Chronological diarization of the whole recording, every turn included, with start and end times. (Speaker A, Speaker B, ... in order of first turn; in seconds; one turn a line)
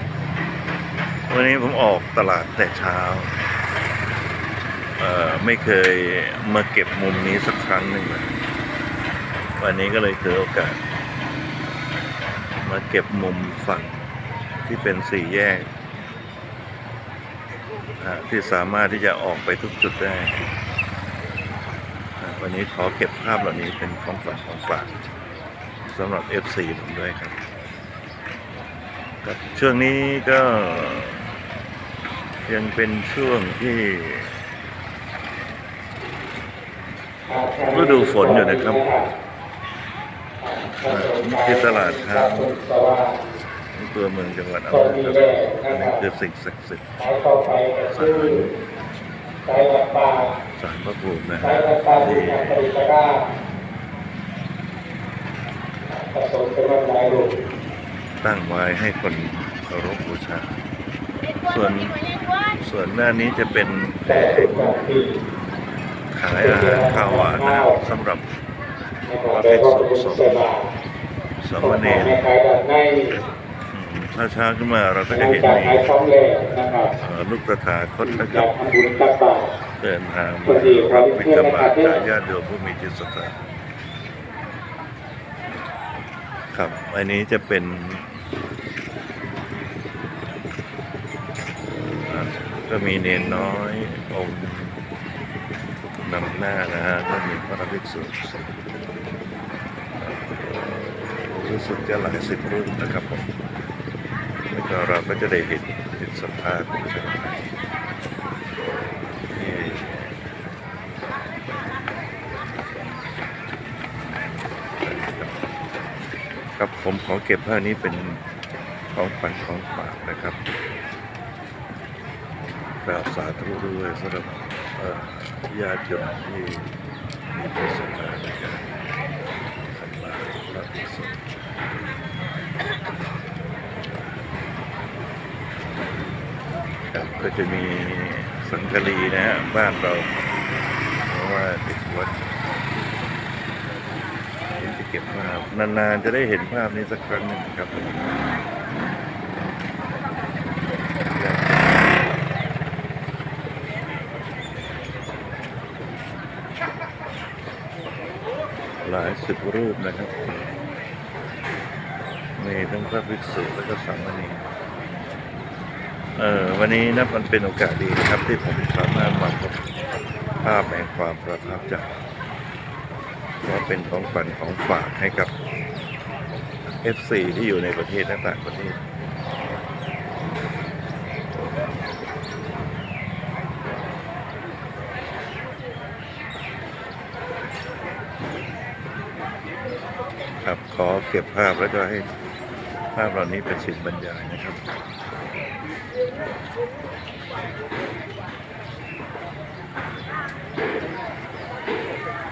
Speaker A: 1.3-3.3
Speaker A: 5.0-8.3
Speaker A: 9.6-10.8
Speaker A: 12.6-14.0
Speaker A: 14.6-15.7
Speaker A: 18.0-20.4
Speaker A: 22.2-24.9
Speaker A: 25.8-27.3
Speaker A: 29.2-31.3
Speaker A: 32.5-34.4
Speaker B: 37.3-39.0
Speaker A: 37.7-38.8
Speaker B: 40.4-43.1
Speaker A: 40.9-42.5
Speaker A: 43.7-47.0
Speaker B: 44.7-46.0
Speaker B: 47.0-48.4
Speaker A: 47.9-48.5
Speaker B: 49.4-50.2
Speaker A: 50.5-52.6
Speaker B: 51.4-53.1
Speaker B: 55.9-57.3
Speaker A: 58.2-60.6
Speaker A: 61.4-62.0
Speaker A: 62.5-64.8
Speaker B: 64.1-65.1
Speaker A: 66.1-68.2
Speaker B: 66.3-67.8
Speaker B: 69.0-70.7
Speaker A: 69.3-70.5
Speaker A: 71.4-72.2
Speaker B: 71.6-73.1
Speaker A: 73.7-75.9
Speaker B: 75.1-76.9
Speaker A: 77.0-78.5
Speaker B: 78.0-79.5
Speaker A: 79.8-83.3
Speaker B: 80.5-82.0
Speaker A: 86.5-88.1
Speaker A: 92.0-94.8
Speaker A: 96.0-98.5
Speaker A: 100.0-103.3
Speaker A: 104.5-107.5
Speaker A: 109.3-110.2
Speaker A: 112.3-113.3
Speaker A: 114.7-115.5
Speaker A: 116.5-118.2
Speaker A: 118.9-120.4
Speaker A: 122.8-126.7
Speaker A: 127.3-128.7
Speaker A: 129.7-131.2
Speaker A: 136.9-140.1
Speaker A: 141.1-142.2
Speaker A: 144.6-148.0
Speaker A: 151.1-151.7
Speaker A: 158.8-160.5
Speaker A: 162.4-164.4
Speaker A: 166.2-169.6
Speaker A: 170.4-171.9
Speaker A: 173.4-175.3
Speaker A: 176.7-178.8
Speaker A: 190.4-192.1
Speaker A: 192.9-194.6